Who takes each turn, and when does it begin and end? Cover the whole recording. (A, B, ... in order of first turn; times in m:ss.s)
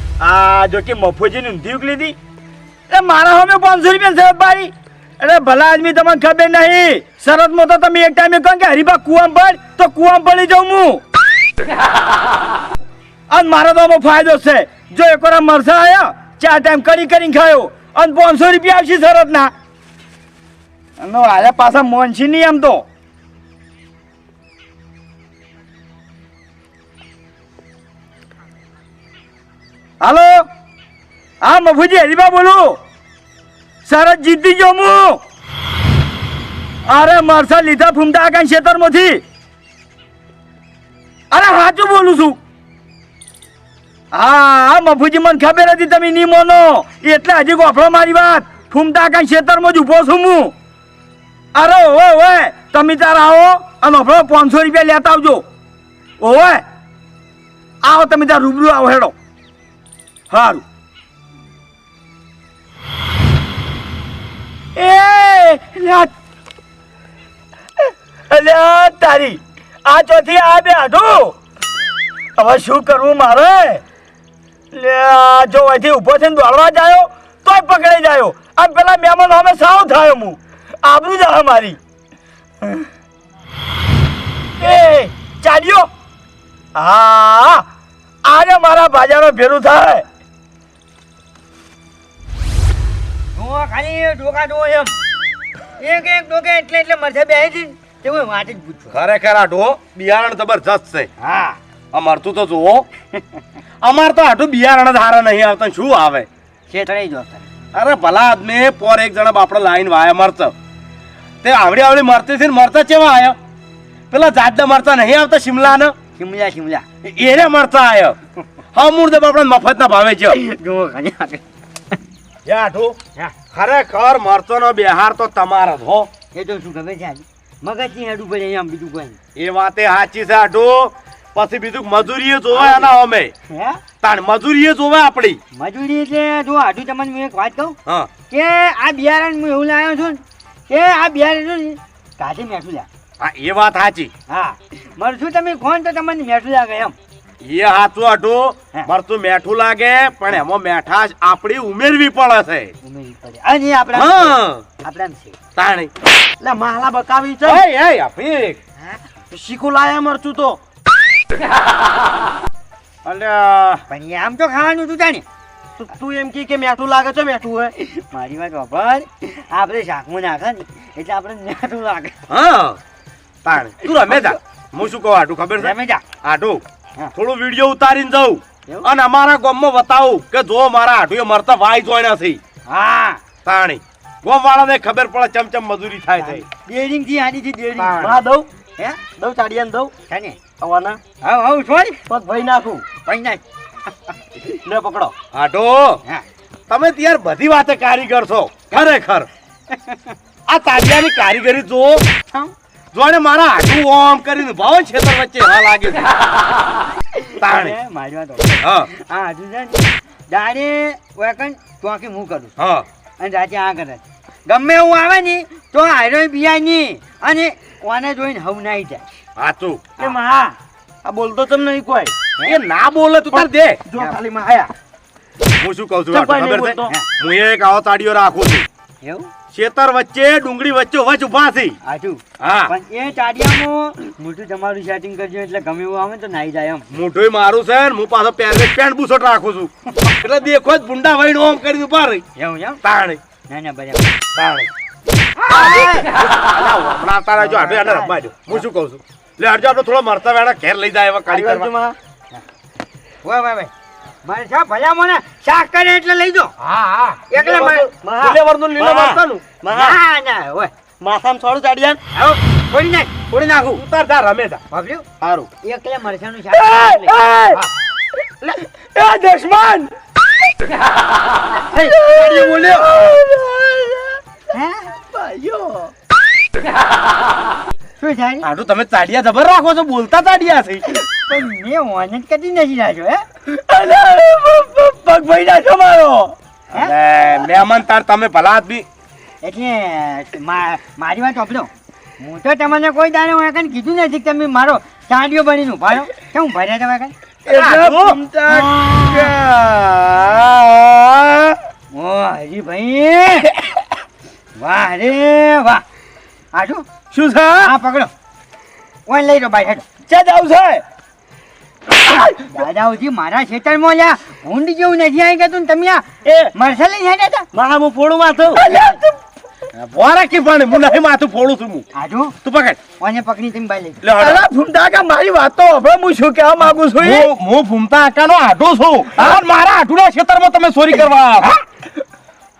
0:00.2-0:02.2 A
0:02.9-0:11.0 A
0:13.3-0:19.5 A
0:21.0-0:22.8 A
0:30.0-0:30.5 A
0:31.4-0:32.8 A
0:33.9-0:35.2 A
0:36.9-0:39.2 A
0:41.3-0:42.4 A
0:44.1-0:50.5 A
0:51.6-0:55.4 A
0:56.2-0:56.6 A
0:57.8-0:59.1 A
1:00.3-1:00.6 A
1:04.8-1:06.1 A
1:08.3-1:11.4 A
1:12.4-1:13.8 A
1:14.7-1:21.8 A
1:24.6-1:25.9 A
1:26.8-1:27.6 A
1:28.2-1:30.0 A
1:33.4-1:34.9 B
1:35.8-1:38.9 B
1:38.9-1:41.1 C
1:41.2-1:41.6 B
1:41.9-1:42.8 C
1:43.8-1:46.3 C
1:46.7-1:47.5 B
1:47.7-1:50.5 C
1:51.4-1:53.4 C
1:54.1-1:55.9 C
1:56.2-1:56.8 B
1:57.0-1:58.1 C
1:58.8-2:00.4 C
2:00.3-2:01.4 B
2:02.5-2:02.9 C
2:03.5-2:06.1 C
2:06.3-2:09.2 B
2:09.4-2:13.3 C
2:12.6-2:12.9 B
2:13.5-2:13.8 B
2:14.0-2:15.4 C
2:15.6-2:17.8 B
2:18.3-2:22.9 B
2:23.2-2:24.1 C
2:24.3-2:26.9 B
2:27.4-2:32.7 C
2:32.8-2:35.4 B
2:33.9-2:34.6 C
2:35.6-2:35.9 C
2:36.4-2:37.6 D
2:37.4-2:38.6 C
2:39.3-2:40.6 D
2:43.0-2:43.8 D
2:43.9-2:45.2 B
2:45.8-2:47.7 D
2:47.8-2:52.1 B
2:52.3-2:52.8 C
2:53.4-2:56.6 C
2:54.0-2:54.4 B
2:55.6-2:56.0 B
2:57.1-3:02.4 C
3:02.7-3:03.2 B
3:03.4-3:06.4 C
3:06.2-3:08.2 B
3:07.8-3:08.5 D
3:09.2-3:09.9 D
3:10.1-3:10.4 B
3:10.6-3:11.0 D
3:11.2-3:12.0 B
3:12.1-3:12.8 D
3:13.1-3:13.4 B
3:14.6-3:15.2 D
3:15.3-3:16.0 C
3:16.7-3:19.3 C
3:19.7-3:20.1 B
3:20.5-3:22.0 C
3:22.9-3:26.1 C
3:27.2-3:32.5 B
3:27.4-3:27.8 C
3:28.6-3:28.9 C
3:32.6-3:32.8 C
3:33.2-3:39.1 B
3:39.4-3:40.0 C
3:40.0-3:42.1 D
3:42.4-3:43.8 C
3:43.4-3:44.7 D
3:45.6-3:48.6 C
3:46.1-3:46.9 D
3:49.0-3:49.3 B
3:49.5-3:51.8 C
3:51.9-3:56.9 B
3:52.4-3:52.7 C
3:56.9-4:02.2 C
4:02.4-4:02.8 B
4:02.8-4:03.2 C
4:03.5-4:04.6 B
4:05.4-4:06.1 B
4:05.5-4:11.7 C
4:07.4-4:08.1 B
4:11.3-4:12.0 D
4:13.2-4:13.7 B
4:14.2-4:16.5 B
4:16.6-4:19.4 C
4:17.3-4:17.9 B
4:18.0-4:20.0 D
4:19.7-4:20.7 B
4:21.0-4:22.0 D
4:22.2-4:23.1 B
4:23.3-4:23.8 D
4:23.8-4:24.6 C
4:24.7-4:25.0 B
4:25.2-4:25.5 D
4:25.6-4:27.2 B
4:26.5-4:27.6 A
4:28.9-4:29.9 A
4:31.8-4:32.2 B
4:31.8-4:34.2 A
4:32.5-4:32.7 D
4:34.5-4:34.9 B
4:35.0-4:35.9 A
4:38.0-4:38.5 B
4:38.4-4:40.8 C
4:41.3-4:43.2 B
4:43.5-4:46.3 A
4:46.7-4:48.8 C
4:49.4-4:57.1 B
4:57.5-4:59.2 A
4:57.5-5:01.5 C
4:58.5-4:59.3 B
5:01.9-5:03.5 B
5:04.6-5:05.8 B
5:06.6-5:06.8 B
5:07.1-5:07.7 C
5:07.6-5:08.1 B
5:09.1-5:09.9 B
5:10.1-5:10.8 A
5:12.1-5:17.5 B
5:17.5-5:18.6 D
5:18.6-5:19.1 A
5:19.8-5:21.8 C
5:21.9-5:22.4 B
5:22.4-5:22.8 C
5:23.0-5:24.0 B
5:24.0-5:24.4 C
5:24.2-5:27.3 A
5:27.0-5:31.5 C